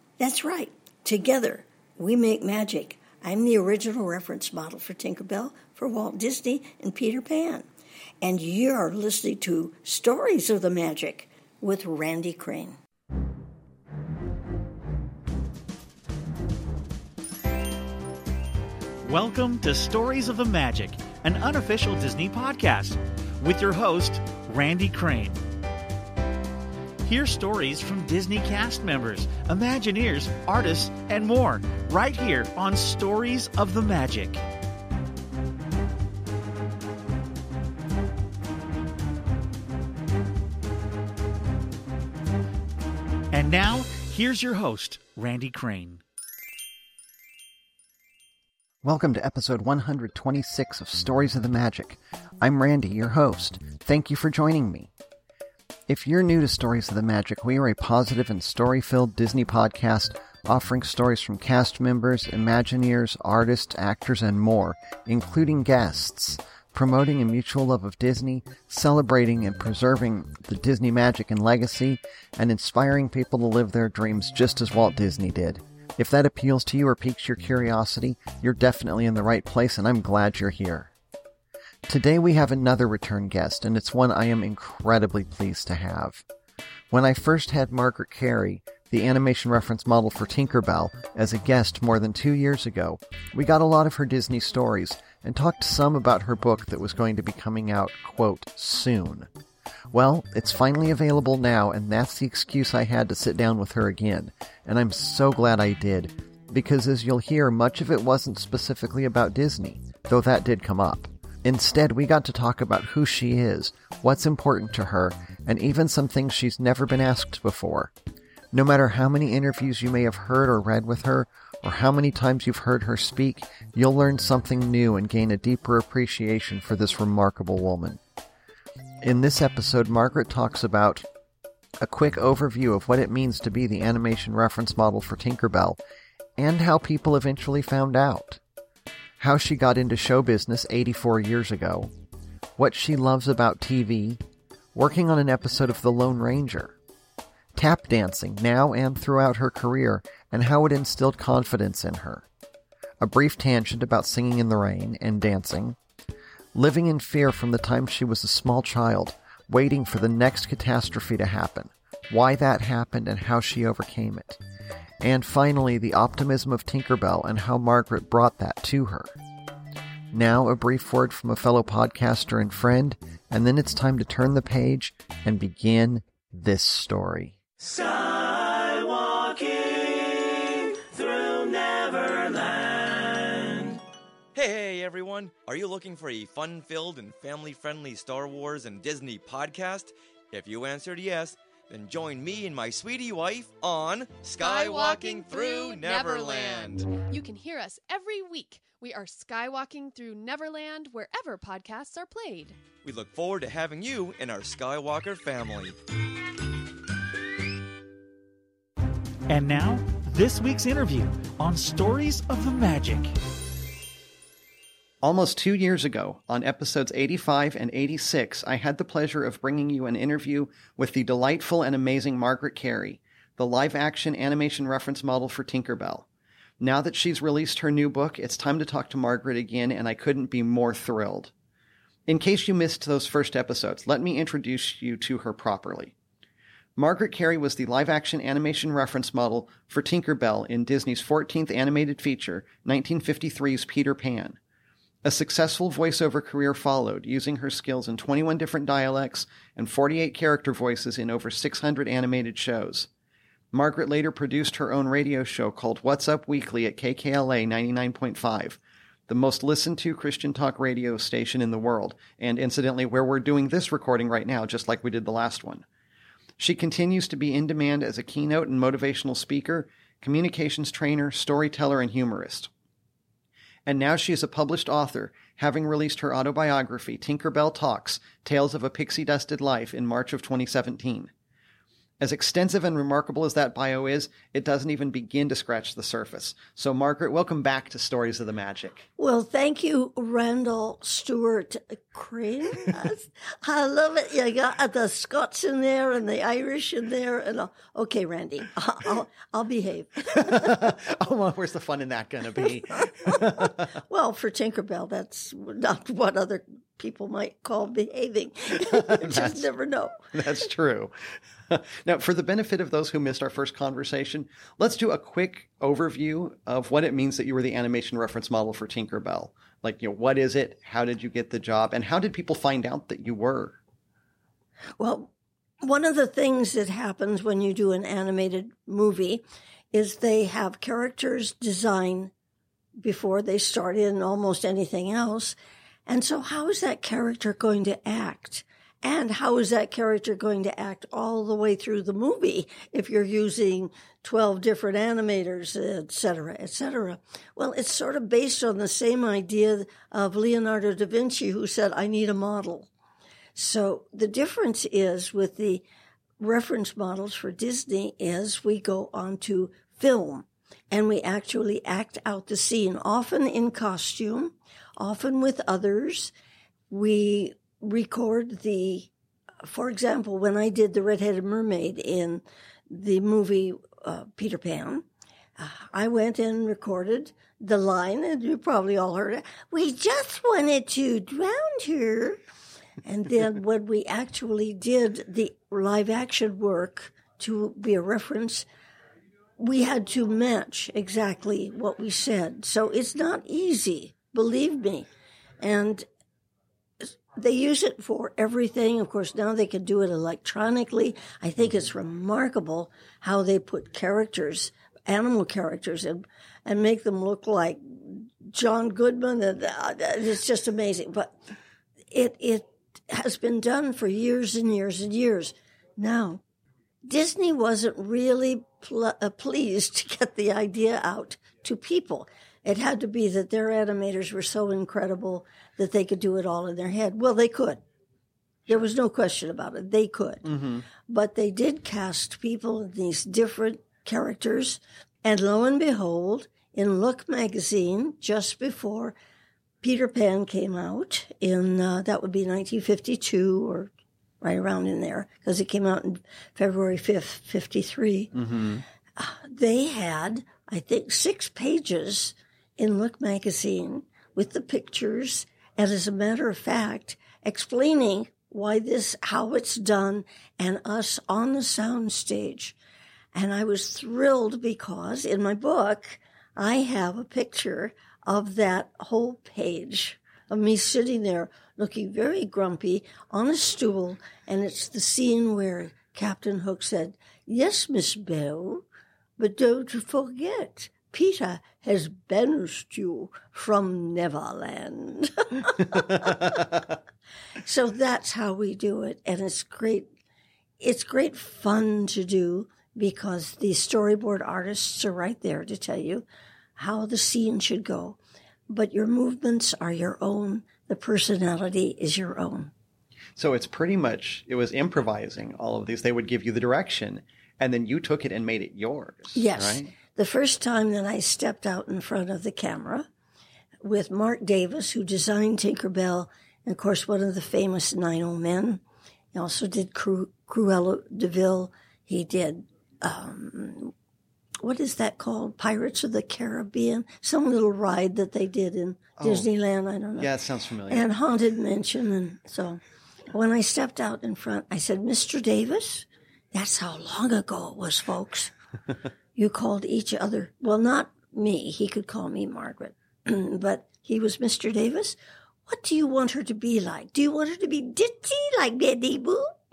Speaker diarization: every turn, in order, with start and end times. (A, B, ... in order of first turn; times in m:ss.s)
0:00.2-0:07.7 A
0:08.2-0:12.8 A
0:19.0-0:25.4 B
0:27.0-0:34.4 B
0:43.3-0:46.0 B
0:48.8-0:54.9 C
0:55.9-1:20.9 C
1:21.9-1:26.2 C
1:26.9-1:39.3 C
1:39.9-1:57.9 C
1:58.5-2:08.0 C
2:09.0-2:11.0 C
2:11.8-2:15.8 C
2:16.4-2:18.4 C
2:19.2-2:21.9 C
2:22.6-2:24.2 C
2:24.7-2:26.8 C
2:27.5-2:32.2 C
2:33.0-2:35.8 C
2:36.5-2:44.4 C
2:45.0-2:49.1 C
2:50.1-2:57.4 C
3:04.3-3:16.9 D
3:14.4-3:22.6 E
3:22.8-3:25.8 D
3:29.3-3:33.1 B
3:35.0-3:46.0 C
3:46.6-3:51.3 C
3:52.1-3:55.9 C
3:56.8-4:04.4 C
4:05.0-4:12.9 C
4:13.5-4:25.6 C
4:26.4-4:32.5 C
4:33.6-4:41.1 C
4:42.0-4:48.8 C
4:49.0-5:00.6 A
5:00.2-5:03.7 C
5:02.8-5:10.1 A
5:08.6-5:09.5 C
5:10.1-5:23.6 C
5:24.8-5:32.1 A
5:32.8-5:35.4 A
5:35.9-5:52.7 A
5:53.3-5:55.6 A
5:56.2-6:06.1 A
6:06.7-6:08.9 A
6:09.4-6:14.8 A
6:15.4-6:22.2 A
6:22.8-6:28.5 A
6:29.4-6:34.9 A
6:35.4-6:35.9 A
6:36.8-6:51.2 A
6:51.9-6:56.2 A
6:56.8-7:07.6 A
7:08.5-7:10.3 A
7:10.2-7:10.6 C
7:10.9-7:19.0 A
7:19.6-7:23.7 A
7:24.2-7:28.1 A
7:28.1-7:28.6 C
7:29.0-7:42.6 A
7:43.1-7:58.6 A
7:59.2-8:06.4 A
8:07.4-8:09.9 A
8:10.6-8:18.0 A
8:18.5-8:22.5 A
8:23.2-8:29.7 C
8:29.1-8:32.9 A
8:33.6-8:38.6 A
8:39.1-8:43.7 A
8:44.4-8:50.1 A
8:49.0-8:49.3 C
8:50.0-8:50.9 C
8:50.7-8:52.6 A
8:53.1-8:58.3 A
8:59.1-9:09.3 A